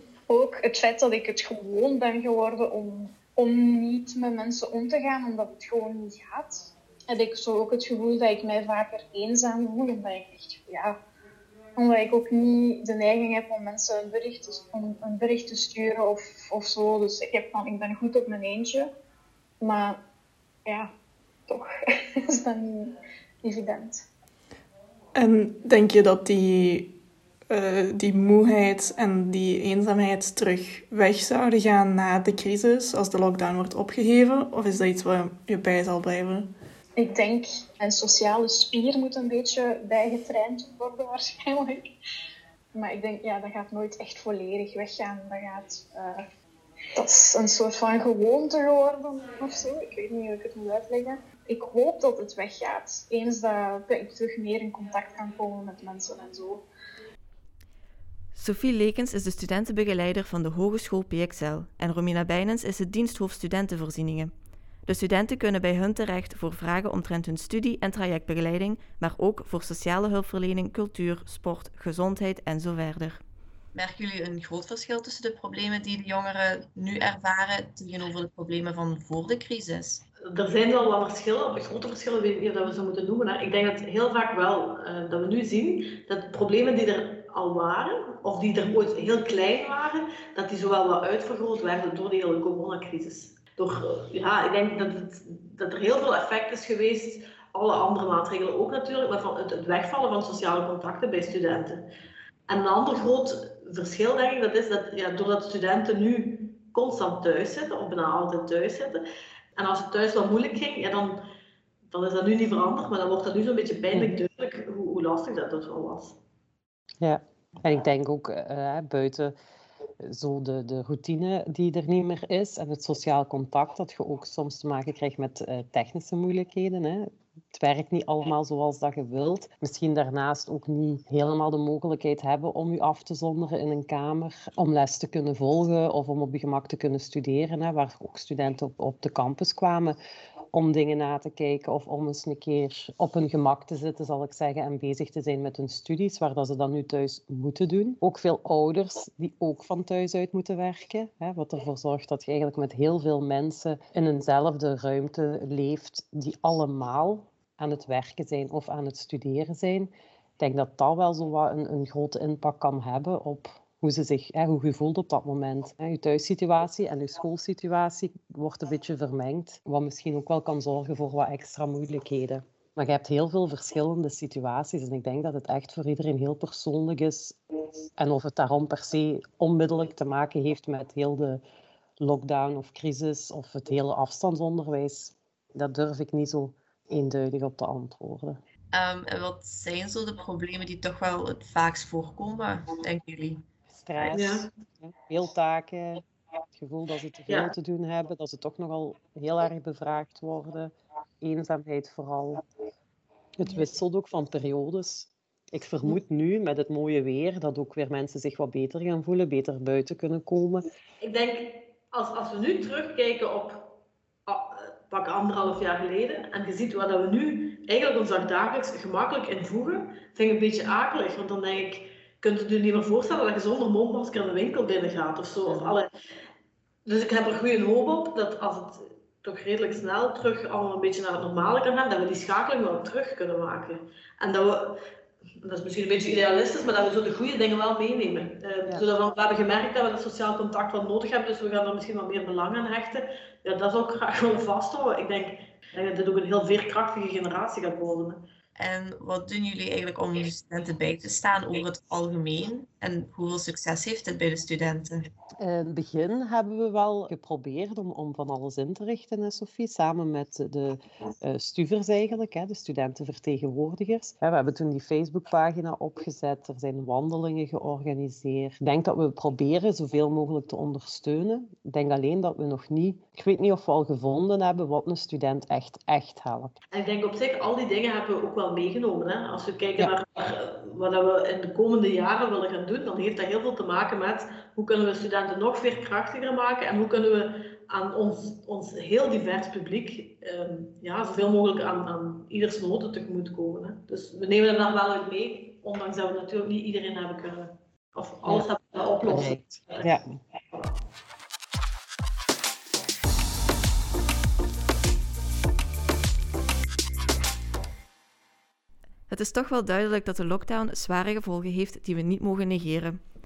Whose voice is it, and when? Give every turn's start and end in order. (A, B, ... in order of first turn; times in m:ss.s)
0:00.3-0:11.0 A
0:11.8-0:18.9 A
0:19.6-0:20.0 A
0:22.2-0:24.0 A
0:25.1-0:26.9 B
0:27.5-0:36.5 B
0:37.0-0:41.9 A
0:42.7-0:46.2 A
0:47.0-0:56.6 A
0:58.3-1:04.3 C
1:04.8-1:13.2 C
1:13.7-1:20.0 D
1:20.3-1:41.8 E
1:42.5-1:49.0 E
1:49.6-1:51.2 E
1:51.9-1:56.2 E
1:53.9-1:54.2 F
1:57.0-1:59.3 F
2:00.0-2:20.0 F
2:20.5-2:57.4 F
2:58.0-3:01.4 F
3:02.0-3:08.4 F
3:08.7-3:13.4 D
3:13.7-3:16.0 F
3:14.0-3:14.4 E
3:16.6-3:22.4 F
3:23.4-3:30.6 F
3:31.0-3:33.7 E
3:34.3-3:45.9 E
3:46.8-3:54.8 E
3:55.4-4:08.2 E
4:08.6-4:15.1 D
4:15.4-4:36.5 F
4:36.7-4:59.9 E
4:59.0-5:00.0 F
5:09.1-5:13.0 C